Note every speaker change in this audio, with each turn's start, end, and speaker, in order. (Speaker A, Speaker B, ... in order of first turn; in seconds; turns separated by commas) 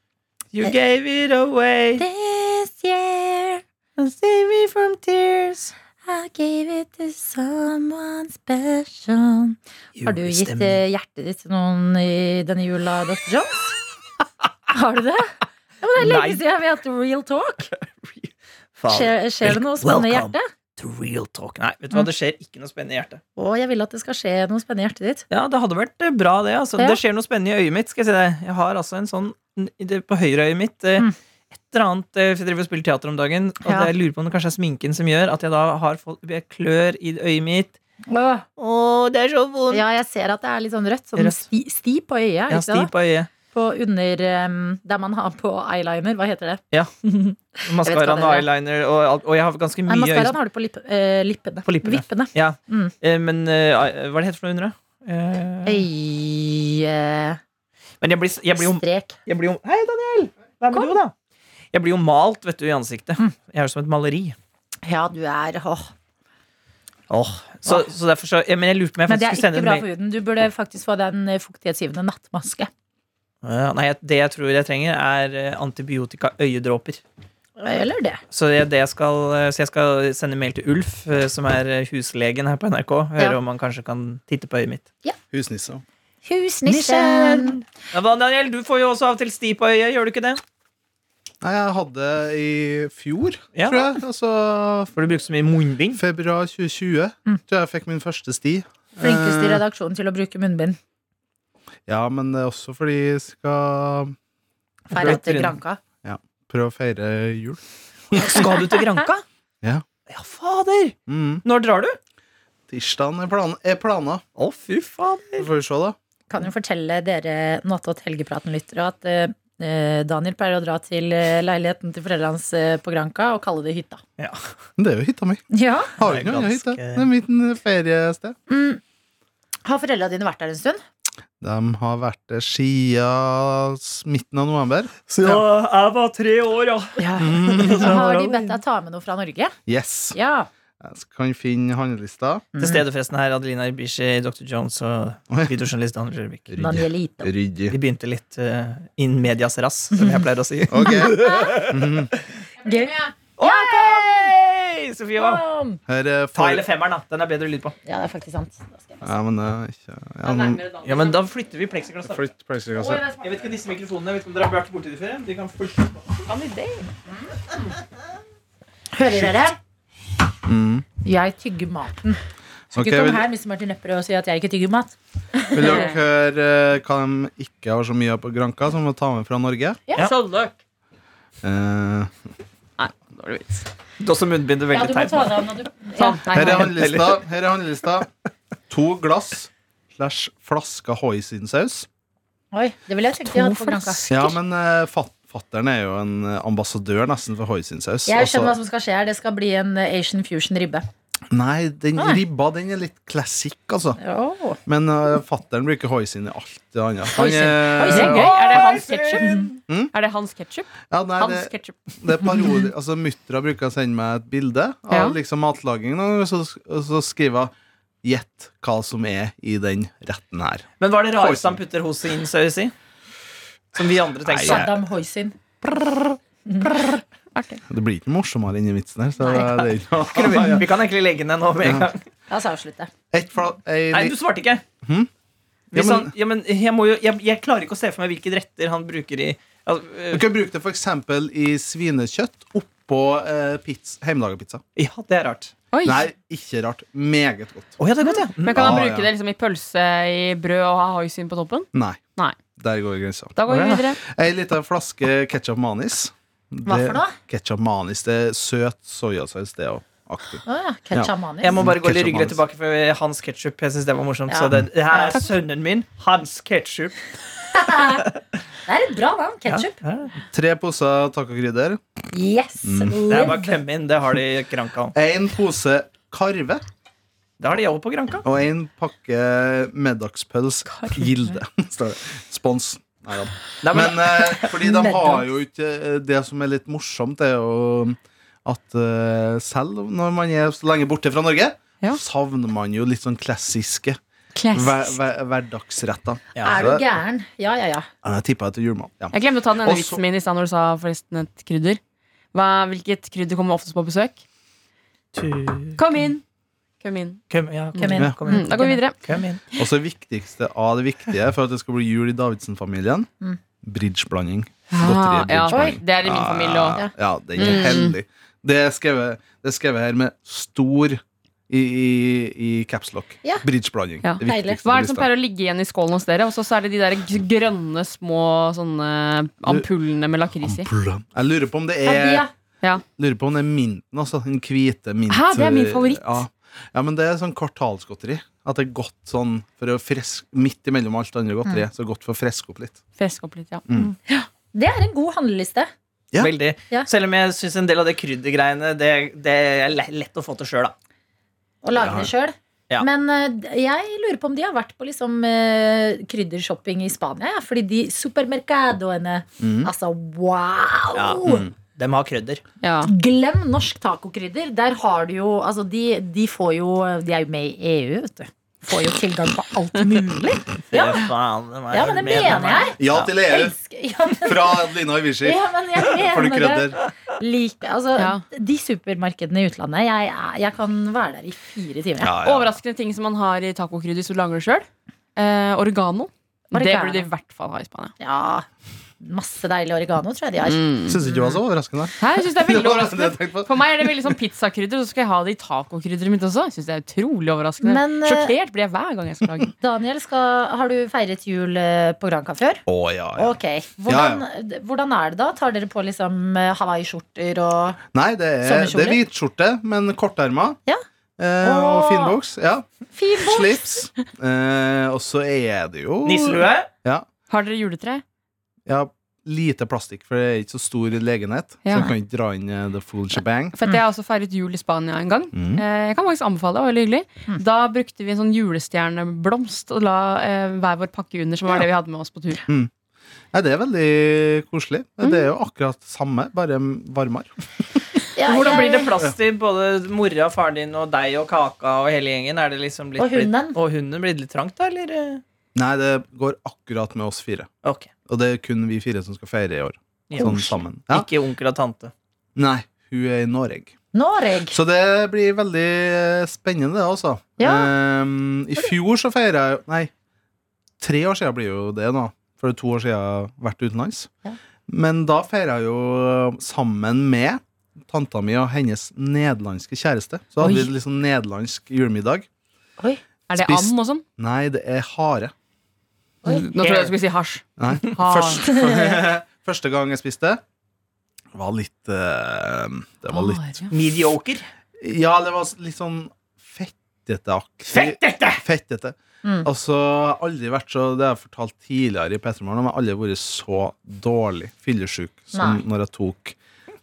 Speaker A: 0.5-2.0, Speaker B: 2.0-3.6, Speaker A: 4.0-5.7, Speaker B: 6.0-13.8, Speaker A: 10.0-10.8, Speaker B: 14.7-17.7, Speaker A: 16.0-16.4, Speaker A: 17.7-23.2, Speaker B: 18.9-20.5, Speaker B: 23.4-25.2, Speaker A: 25.3-37.7, Speaker B: 33.6-33.9, Speaker B: 38.1-38.5, Speaker A: 38.6-39.8, Speaker B: 39.7-42.9, Speaker A: 41.2-41.5, Speaker A: 42.5-43.3, Speaker B: 43.5-48.5, Speaker A: 47.6-50.4, Speaker B: 49.9-52.9, Speaker A: 51.7-55.9, Speaker B: 55.7-57.4, Speaker A: 58.0-61.1, Speaker B: 58.6-59.2, Speaker B: 60.7-61.0, Speaker A: 61.7-64.4, Speaker B: 64.8-65.9, Speaker A: 67.1-69.8, Speaker B: 69.1-72.7, Speaker A: 73.4-77.0, Speaker B: 77.6-78.2, Speaker A: 78.3-84.9, Speaker C: 85.3-85.8, Speaker B: 86.2-87.6, Speaker A: 86.7-90.4, Speaker C: 91.4-94.9, Speaker A: 93.5-94.0, Speaker A: 95.0-96.0, Speaker C: 95.9-99.6, Speaker B: 99.0-100.8, Speaker C: 101.9-104.2, Speaker A: 104.9-105.6, Speaker B: 104.9-105.8, Speaker C: 106.0-108.5, Speaker A: 108.2-109.2, Speaker B: 108.4-109.1, Speaker A: 110.1-112.0, Speaker C: 111.1-111.4, Speaker C: 112.7-114.2, Speaker A: 114.4-115.5, Speaker C: 115.4-116.0, Speaker B: 116.3-124.0, Speaker C: 124.8-125.4, Speaker B: 125.5-125.9, Speaker C: 126.0-128.4, Speaker A: 126.0-127.1, Speaker B: 128.5-128.8, Speaker B: 129.7-130.8, Speaker C: 131.4-135.4, Speaker A: 135.1-137.0, Speaker B: 137.0-139.6, Speaker C: 137.2-137.9, Speaker A: 137.6-138.6, Speaker C: 139.7-140.2, Speaker B: 140.1-140.5, Speaker C: 140.8-142.5, Speaker B: 142.6-142.8, Speaker A: 142.6-146.5, Speaker C: 146.5-147.8, Speaker B: 146.6-147.3, Speaker A: 147.7-152.2, Speaker B: 150.0-150.2, Speaker C: 150.7-152.1, Speaker B: 150.8-151.6, Speaker B: 152.6-154.3, Speaker A: 153.4-155.4, Speaker B: 155.2-155.8, Speaker C: 155.9-156.7, Speaker A: 156.3-157.8, Speaker B: 157.9-159.1, Speaker C: 159.0-160.6, Speaker D: 160.2-161.2, Speaker A: 160.8-162.2, Speaker C: 162.1-163.0, Speaker D: 162.8-163.2, Speaker A: 163.2-166.6, Speaker B: 168.9-169.6, Speaker C: 170.4-170.9, Speaker B: 171.0-172.2, Speaker C: 172.7-173.2, Speaker B: 172.7-175.8, Speaker C: 175.5-179.8, Speaker D: 175.6-175.9, Speaker B: 179.9-180.1, Speaker D: 180.1-180.5, Speaker C: 181.4-182.2, Speaker D: 182.8-183.7, Speaker A: 184.0-185.4, Speaker B: 184.7-186.4, Speaker D: 186.0-186.7, Speaker C: 186.3-188.1, Speaker A: 186.4-187.2, Speaker C: 188.7-191.9, Speaker B: 192.5-194.1, Speaker D: 193.3-194.3, Speaker C: 194.1-198.6, Speaker B: 198.1-200.9, Speaker C: 201.3-204.0, Speaker B: 204.0-204.6, Speaker C: 204.7-208.7, Speaker B: 207.1-208.5, Speaker D: 207.9-212.6, Speaker A: 207.9-209.4, Speaker B: 209.2-209.5, Speaker C: 210.9-217.5, Speaker D: 214.9-215.2, Speaker C: 218.0-221.6, Speaker A: 220.8-222.7, Speaker A: 223.8-224.7, Speaker C: 224.2-224.7, Speaker B: 224.4-225.4, Speaker B: 226.5-227.0, Speaker D: 227.3-227.6, Speaker C: 227.7-230.7, Speaker B: 229.2-229.5, Speaker A: 230.1-232.0, Speaker C: 231.6-231.9, Speaker B: 232.3-232.9, Speaker C: 233.1-234.2, Speaker A: 233.9-234.6, Speaker C: 234.8-235.1, Speaker A: 235.7-240.2, Speaker C: 235.7-236.1, Speaker C: 240.1-244.6, Speaker A: 244.8-245.5, Speaker D: 245.7-246.0, Speaker C: 245.8-247.8, Speaker A: 247.8-248.8, Speaker D: 248.1-252.4, Speaker C: 248.5-249.1, Speaker C: 251.7-252.0, Speaker C: 252.6-262.4, Speaker D: 253.4-254.0, Speaker B: 256.6-257.2, Speaker B: 260.5-261.6, Speaker A: 261.4-267.0, Speaker B: 264.3-265.2, Speaker B: 267.5-268.1, Speaker A: 267.8-268.1, Speaker B: 268.7-269.8, Speaker A: 269.5-270.1, Speaker C: 270.3-271.8, Speaker B: 272.1-273.6, Speaker C: 272.6-273.3, Speaker A: 273.1-274.9, Speaker C: 274.9-276.6, Speaker A: 277.4-278.2, Speaker C: 278.2-294.0, Speaker A: 283.6-284.6, Speaker B: 284.6-285.2, Speaker D: 294.4-294.9, Speaker C: 294.5-296.9, Speaker A: 296.4-296.6, Speaker B: 296.4-297.9, Speaker C: 298.0-300.0, Speaker D: 299.1-301.8, Speaker D: 302.3-304.2, Speaker A: 305.1-305.8, Speaker D: 305.8-306.2, Speaker D: 306.8-307.2, Speaker A: 307.3-309.4, Speaker B: 307.8-308.8, Speaker D: 307.8-309.0, Speaker C: 309.6-313.1, Speaker C: 313.6-325.1, Speaker D: 314.7-317.9, Speaker B: 315.5-315.8, Speaker D: 324.0-330.7, Speaker B: 324.2-324.6, Speaker C: 330.4-332.2, Speaker B: 331.8-332.3, Speaker C: 333.0-342.8, Speaker D: 335.1-336.2, Speaker D: 343.0-343.6, Speaker C: 343.7-343.9, Speaker B: 343.8-345.7, Speaker A: 346.2-350.7, Speaker B: 351.6-361.5, Speaker C: 351.8-352.1, Speaker C: 359.4-359.7, Speaker A: 360.9-362.4, Speaker D: 362.6-362.9, Speaker B: 362.8-371.0, Speaker A: 370.7-373.1, Speaker B: 371.7-374.6, Speaker C: 372.8-373.6, Speaker C: 374.2-376.8, Speaker B: 375.2-382.1, Speaker D: 378.0-378.2, Speaker C: 382.0-382.5, Speaker D: 382.2-387.9, Speaker B: 386.5-387.1, Speaker B: 388.0-388.5, Speaker B: 389.0-391.4, Speaker D: 390.5-391.0, Speaker C: 390.9-394.2, Speaker D: 392.0-399.5, Speaker B: 397.6-398.3, Speaker B: 399.6-402.6, Speaker C: 402.7-403.3, Speaker B: 403.2-407.8, Speaker C: 403.9-404.2, Speaker C: 407.9-410.6, Speaker B: 408.4-409.0, Speaker C: 411.2-417.1, Speaker B: 411.4-412.2, Speaker B: 412.9-413.6, Speaker A: 416.0-416.7, Speaker D: 417.3-418.0, Speaker C: 418.7-423.6, Speaker D: 421.6-421.9, Speaker D: 423.6-432.4, Speaker C: 425.3-425.6, Speaker C: 433.3-437.3, Speaker B: 438.2-438.9, Speaker A: 438.2-445.2, Speaker B: 443.0-443.6, Speaker C: 445.6-447.5, Speaker A: 447.6-447.9, Speaker C: 448.1-451.1, Speaker A: 450.1-451.9, Speaker B: 450.2-450.5, Speaker C: 452.4-453.7, Speaker B: 453.9-454.6, Speaker C: 454.5-459.9, Speaker B: 457.4-457.7, Speaker C: 460.8-464.1, Speaker C: 464.7-472.3, Speaker D: 473.3-474.0, Speaker C: 473.3-475.3, Speaker D: 476.2-478.6, Speaker A: 476.6-476.9, Speaker C: 477.6-480.4, Speaker C: 481.3-483.6, Speaker D: 483.1-483.7, Speaker A: 483.7-484.5, Speaker C: 484.8-496.4, Speaker A: 487.7-488.4, Speaker B: 495.3-495.6